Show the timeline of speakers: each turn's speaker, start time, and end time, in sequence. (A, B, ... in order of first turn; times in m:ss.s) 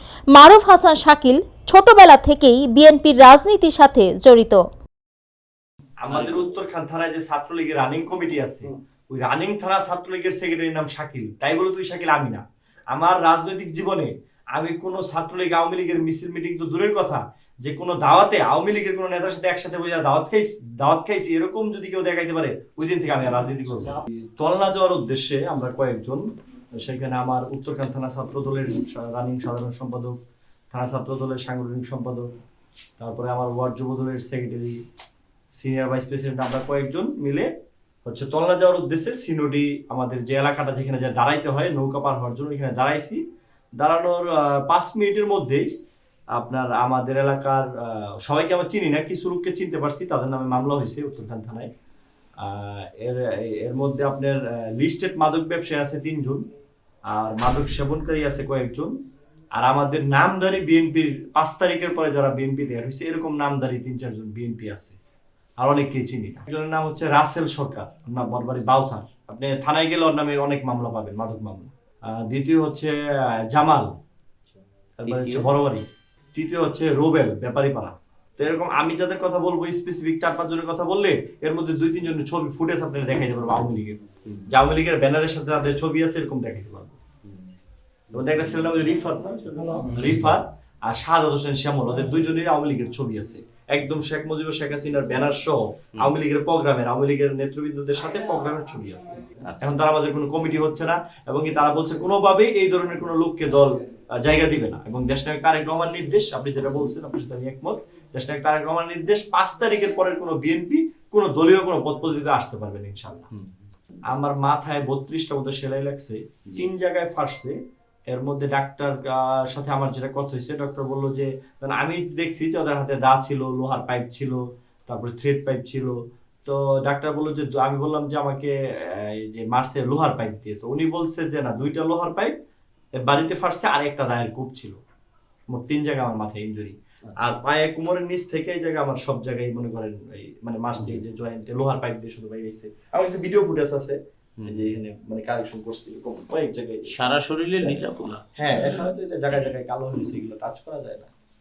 0:00.3-0:04.6 A
0:06.0-0:30.2 B
0:06.1-0:06.4 C
0:30.7-0:32.3 B
0:33.0-0:34.8 B
0:35.5-0:37.5 B
0:38.0-0:43.2 B
0:43.8-0:45.7 B
0:46.3-0:51.7 B
0:52.4-0:56.4 B
0:57.1-0:58.9 B
0:59.6-1:05.0 B
1:05.6-1:12.9 B
1:13.5-1:13.9 B
1:15.0-1:27.0 B
1:15.0-1:15.5 C
1:28.1-1:53.2 B
1:29.9-1:30.4 C
1:39.4-1:39.7 C
1:54.1-1:57.6 B
1:58.1-2:12.3 B
2:13.0-2:14.8 B
2:15.5-2:26.9 B
2:17.1-2:17.4 C
2:20.7-2:21.0 C
2:24.4-2:24.7 C
2:26.9-2:28.2 C
2:28.4-2:31.1 B